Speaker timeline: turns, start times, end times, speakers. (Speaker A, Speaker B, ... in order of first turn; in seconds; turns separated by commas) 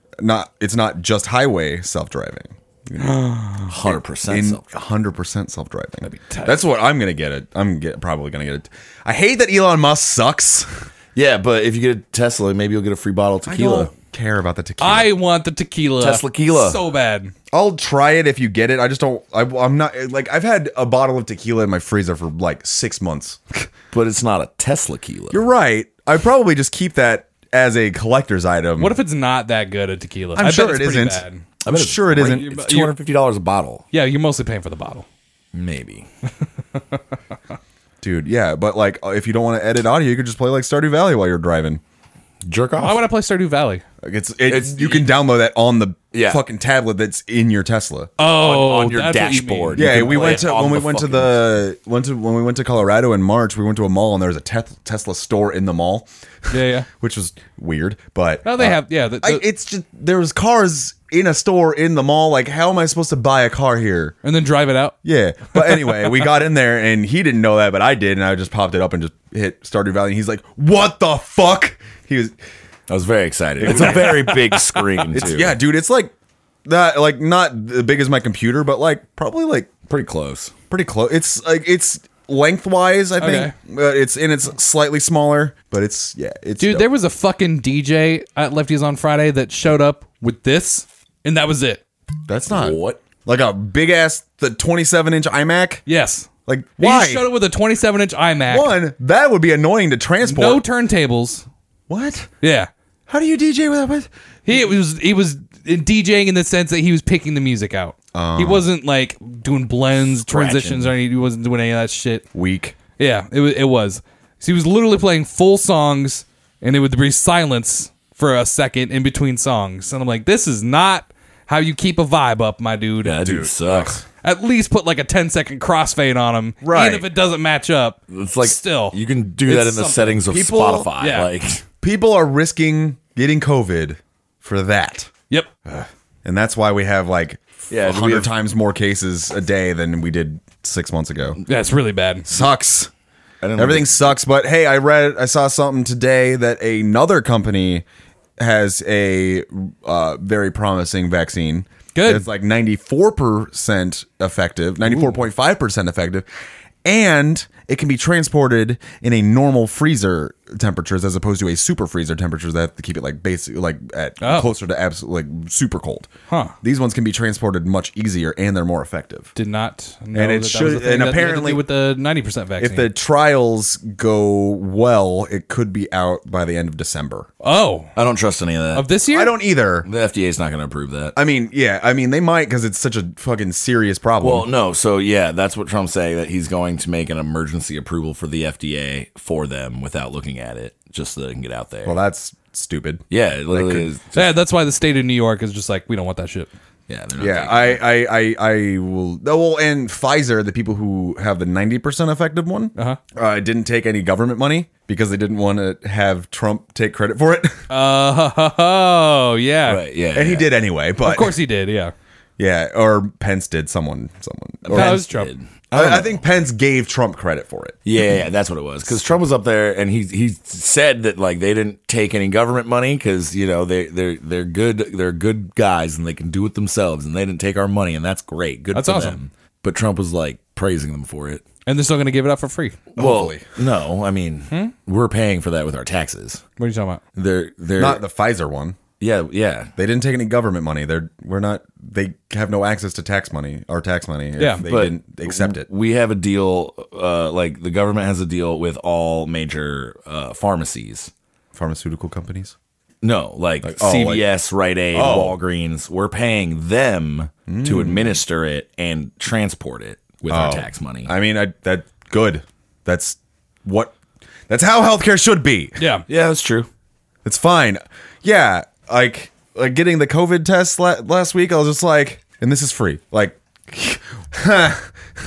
Speaker A: 0.2-10.9, Speaker B: 3.7-4.8, Speaker C: 6.0-6.6, Speaker B: 11.2-13.9, Speaker A: 13.5-15.1, Speaker C: 14.8-17.3, Speaker B: 16.0-16.8, Speaker A: 17.5-23.7, Speaker B: 23.9-25.4, Speaker A: 25.3-29.0, Speaker C: 28.8-31.4, Speaker A: 30.4-32.9, Speaker B: 31.6-33.8, Speaker C: 32.2-32.9, Speaker C: 33.9-35.0, Speaker B: 35.5-36.1, Speaker A: 38.0-41.8, Speaker B: 42.5-43.0, Speaker C: 42.8-43.8, Speaker A: 44.0-48.1, Speaker B: 44.5-45.1, Speaker B: 46.1-46.4, Speaker C: 48.2-50.5, Speaker B: 48.3-51.4, Speaker A: 49.8-64.2, Speaker C: 56.5-56.9, Speaker C: 58.4-59.4, Speaker C: 64.2-65.0, Speaker A: 65.0-72.3, Speaker C: 65.6-66.0, Speaker B: 72.9-75.6, Speaker A: 73.6-74.3, Speaker C: 73.6-75.2, Speaker A: 75.1-76.1, Speaker A: 76.7-79.7, Speaker B: 79.9-80.5, Speaker A: 80.7-86.9, Speaker C: 83.2-83.5, Speaker C: 86.6-91.8, Speaker A: 92.3-95.8, Speaker B: 92.5-93.0, Speaker C: 95.9-98.8, Speaker A: 96.5-97.3, Speaker A: 98.5-100.6, Speaker C: 100.2-101.5, Speaker A: 101.9-102.3, Speaker C: 102.4-102.7, Speaker A: 103.1-104.1, Speaker C: 104.5-112.2, Speaker A: 108.1-108.7, Speaker B: 109.9-110.9, Speaker A: 112.3-112.8, Speaker C: 113.0-123.3, Speaker B: 123.0-124.0, Speaker A: 123.2-124.0, Speaker C: 124.2-130.2, Speaker A: 126.6-127.1, Speaker B: 128.1-131.6, Speaker A: 130.3-130.9, Speaker C: 131.0-131.3, Speaker A: 131.8-135.1, Speaker A: 135.7-141.4, Speaker B: 137.7-138.3, Speaker C: 141.5-142.3, Speaker A: 142.3-142.9, Speaker B: 143.4-144.0, Speaker A: 143.6-147.8, Speaker A: 148.4-156.3, Speaker C: 151.9-152.3, Speaker C: 154.9-155.2, Speaker A: 156.8-166.1, Speaker C: 164.2-164.5, Speaker C: 166.3-166.6, Speaker A: 166.6-169.3, Speaker C: 169.3-172.9, Speaker A: 170.1-171.6, Speaker A: 172.6-177.3, Speaker C: 177.4-177.9, Speaker B: 177.9-178.9, Speaker C: 178.7-179.3, Speaker A: 179.1-179.9, Speaker B: 179.8-181.2, Speaker A: 181.2-184.5, Speaker B: 184.2-192.0, Speaker A: 191.8-193.9, Speaker B: 193.1-194.3, Speaker C: 194.1-196.5, Speaker B: 196.9-197.8, Speaker A: 197.2-207.6, Speaker C: 207.7-209.8, Speaker B: 209.7-210.5, Speaker A: 210.1-211.4, Speaker C: 211.0-211.9, Speaker A: 212.4-215.0, Speaker B: 214.6-216.2, Speaker C: 214.7-215.3, Speaker A: 215.7-217.8, Speaker B: 217.8-231.4, Speaker C: 228.7-229.2, Speaker C: 231.7-232.8, Speaker A: 233.0-233.6, Speaker B: 233.0-236.4, Speaker C: 236.6-237.0, Speaker B: 237.2-238.0, Speaker A: 237.8-238.8, Speaker B: 239.0-239.7, Speaker A: 239.8-245.7, Speaker C: 244.4-244.6, Speaker B: 244.7-251.1, Speaker A: 251.5-252.6, Speaker B: 253.0-261.1, Speaker A: 253.6-254.2, Speaker A: 254.9-255.4, Speaker A: 257.5-258.2, Speaker A: 260.3-263.9, Speaker A: 264.5-265.8, Speaker C: 265.8-266.1, Speaker B: 266.1-266.7, Speaker A: 267.2-274.9